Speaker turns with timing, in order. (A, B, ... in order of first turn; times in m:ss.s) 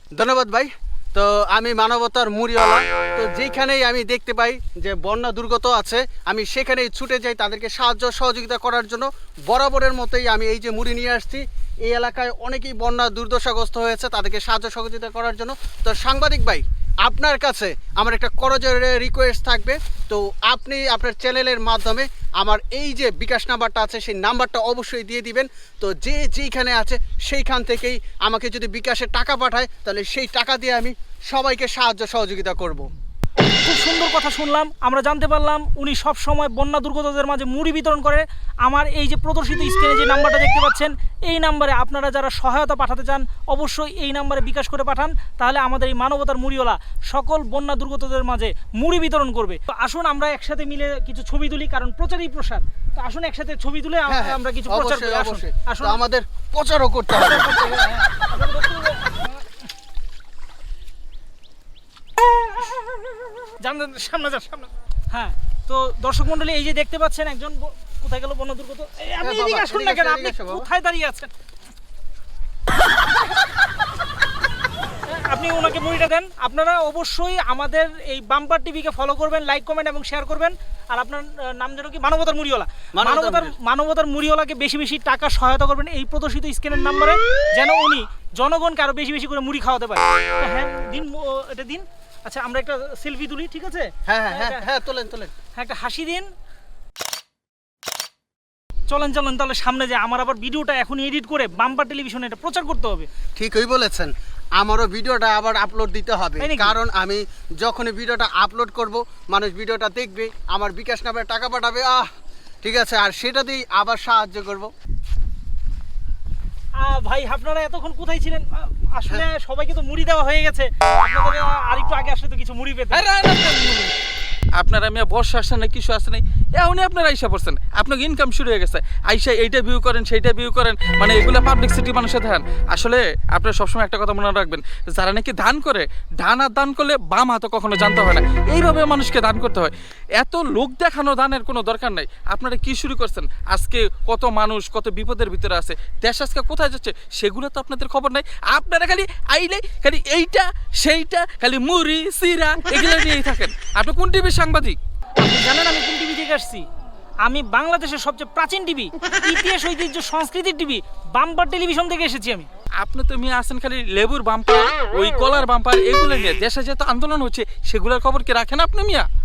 0:00.2-0:32.9 A
0:33.4-0:56.0 B
0:54.1-0:57.6 A
0:57.2-0:59.4 B
1:03.6-1:11.3 B
1:09.2-1:10.7 A
1:15.1-1:34.6 B
1:23.0-1:23.5 A
1:34.1-1:35.3 A
1:35.6-1:36.3 B
1:38.9-1:43.1 B
1:43.4-1:52.1 A
1:46.4-1:46.8 B
1:52.6-1:54.7 A
1:56.8-2:03.1 B
2:02.9-2:03.9 C
2:04.6-2:34.8 C
2:35.2-2:36.6 B
2:37.2-2:42.5 B
2:42.8-2:49.1 C